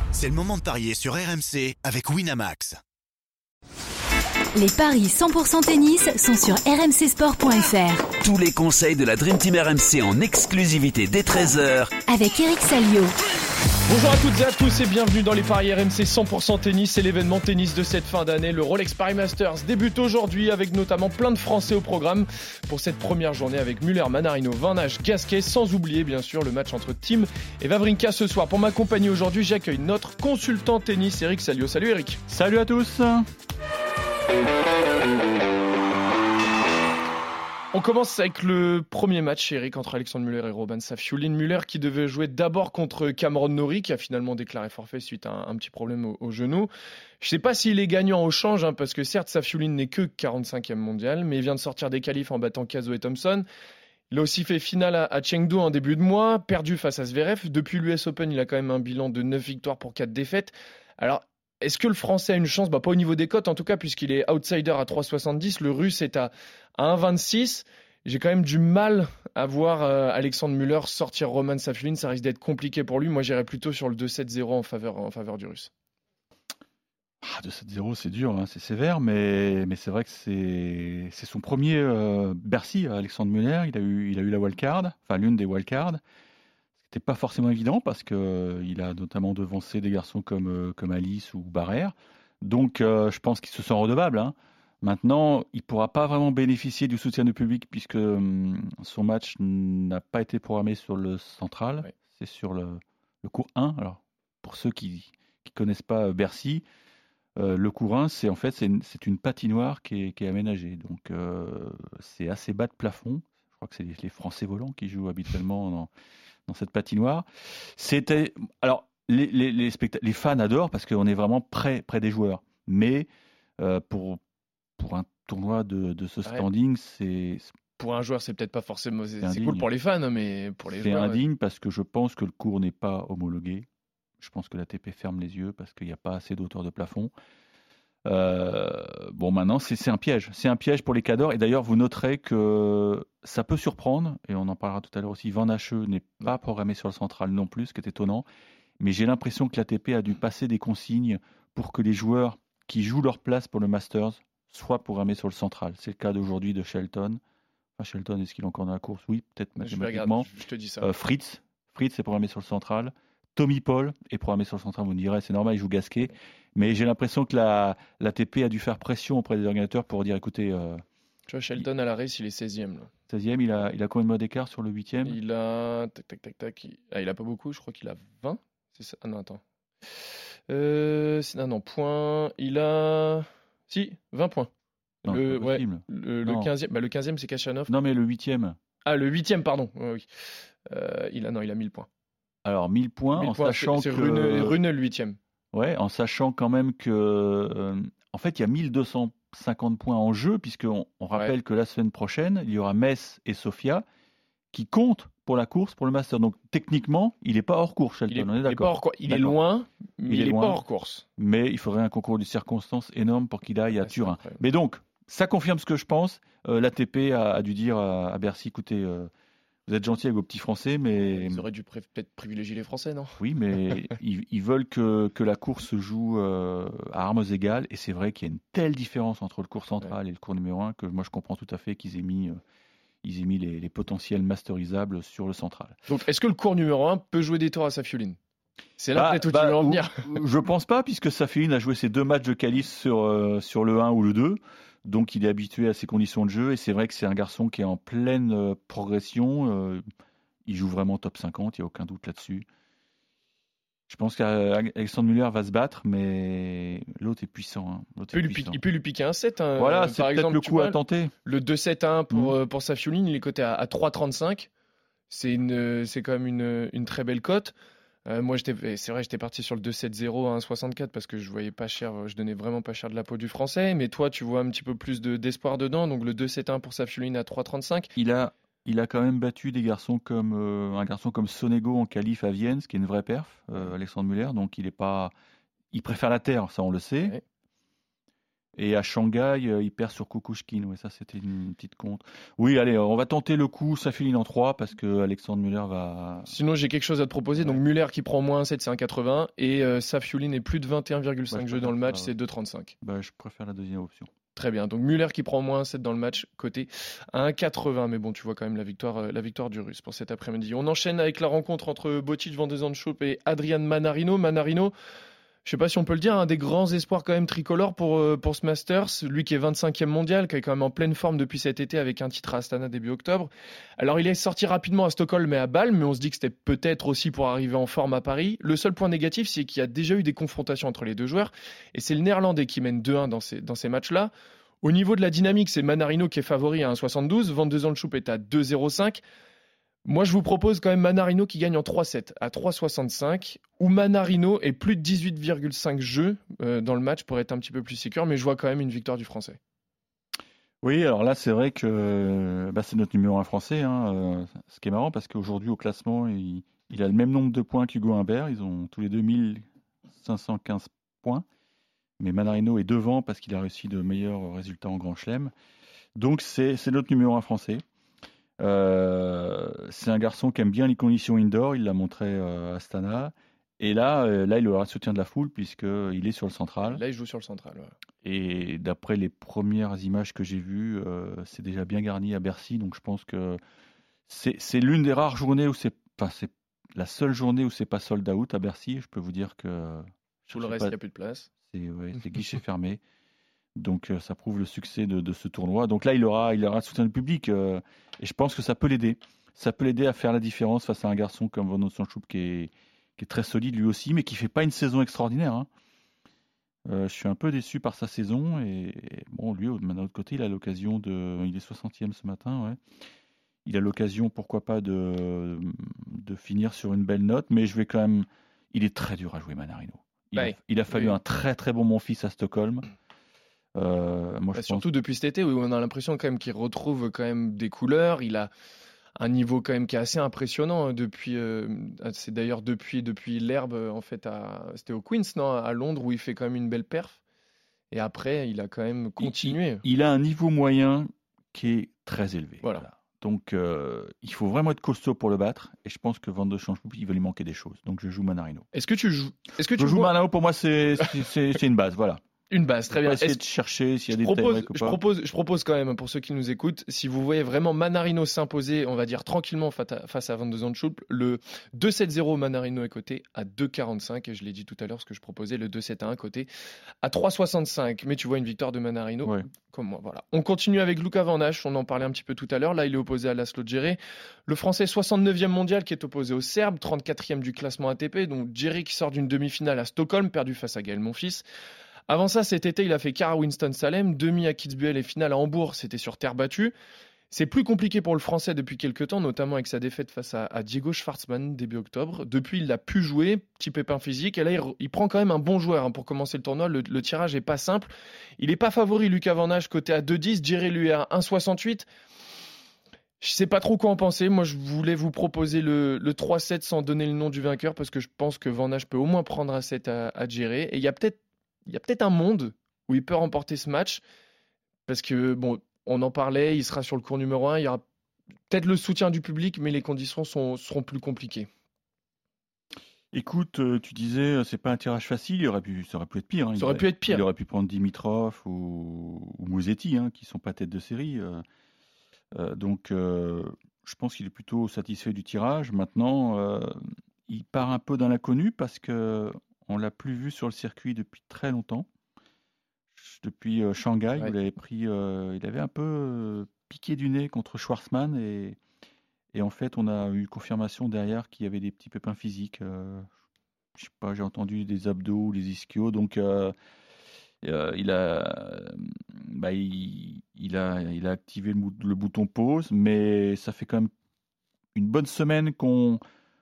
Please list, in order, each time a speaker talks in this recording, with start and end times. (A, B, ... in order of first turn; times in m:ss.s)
0:00.1-0:02.8 A
0:04.6-0:08.1 B
0:08.2-0:12.0 C
0:12.0-0:13.1 B
0:13.9-0:32.2 D
0:32.3-0:33.3 E
0:37.7-0:46.7 D
0:47.2-0:53.4 D
0:54.1-1:15.7 D
1:17.2-1:26.0 E
1:26.9-1:46.6 E
1:47.4-1:55.9 E
1:56.5-2:03.1 E
2:03.6-2:04.2 E
2:04.8-2:07.5 E
2:07.8-2:11.2 D
2:09.2-2:09.7 E
2:10.7-2:13.7 E
2:14.2-2:17.1 E
2:18.0-2:28.3 E
2:28.8-2:37.2 E
2:37.8-2:40.3 E
2:39.6-2:40.9 D
2:40.8-2:50.8 E
2:51.3-2:52.9 D
2:53.1-2:55.2 E
2:55.0-2:59.4 D
3:00.5-3:04.5 D
3:05.0-3:06.5 E
3:05.0-3:07.7 D
3:07.7-3:08.6 E
3:08.8-3:11.9 D
3:12.4-3:14.6 E
3:13.1-3:15.2 D
3:15.5-3:23.8 E
3:24.5-3:29.4 E
3:28.1-3:31.0 D
3:30.1-3:30.6 E
3:31.2-3:39.1 E
3:33.9-3:34.4 D
3:39.7-3:41.4 E
3:41.0-3:43.2 D
3:43.2-3:52.4 E
3:53.0-3:55.8 E
3:55.9-3:58.2 D
3:58.8-4:00.0 D
3:59.0-4:09.8 E
4:10.5-4:12.4 E
4:13.9-4:18.6 E
4:18.1-4:24.5 D
4:19.6-4:21.1 E
4:25.1-4:27.5 D
4:28.0-4:37.9 D
4:38.0-4:45.1 E
4:45.7-4:47.2 E
4:48.6-4:56.4 E
4:56.3-5:02.7 D
5:01.3-5:02.1 E
5:02.8-5:04.1 E
5:04.4-5:14.7 D
5:15.4-5:39.0 D
5:39.8-5:49.4 D
5:50.6-6:01.2 E
6:02.0-6:05.3 E
6:06.0-6:07.6 E
6:08.4-6:16.8 E
6:16.6-6:17.7 D
6:18.0-6:23.4 E
6:24.1-6:30.8 E
6:30.3-6:31.3 D
6:31.5-6:32.8 E
6:33.6-6:45.5 E
6:46.7-6:52.6 E
6:53.5-7:02.7 E
7:00.2-7:01.0 D
7:03.6-7:04.7 E
7:04.3-7:08.3 D
7:09.0-7:17.0 D
7:17.7-7:19.6 D
7:19.0-7:28.5 E
7:28.5-7:29.9 D
7:29.5-7:32.0 E
7:32.3-7:33.2 D
7:32.7-7:34.8 E
7:33.9-7:46.3 D
7:46.8-8:01.2 D
8:01.9-8:06.5 D
8:07.1-8:21.7 D
8:23.0-8:33.8 D
8:34.7-8:37.6 D
8:38.3-8:41.3 D
8:42.9-8:51.2 E
8:46.4-8:47.0 D
8:52.2-9:01.7 E
9:02.8-9:08.4 E
9:09.1-9:12.9 E
9:13.6-9:16.3 E
9:17.2-9:23.7 E
9:24.6-9:25.8 E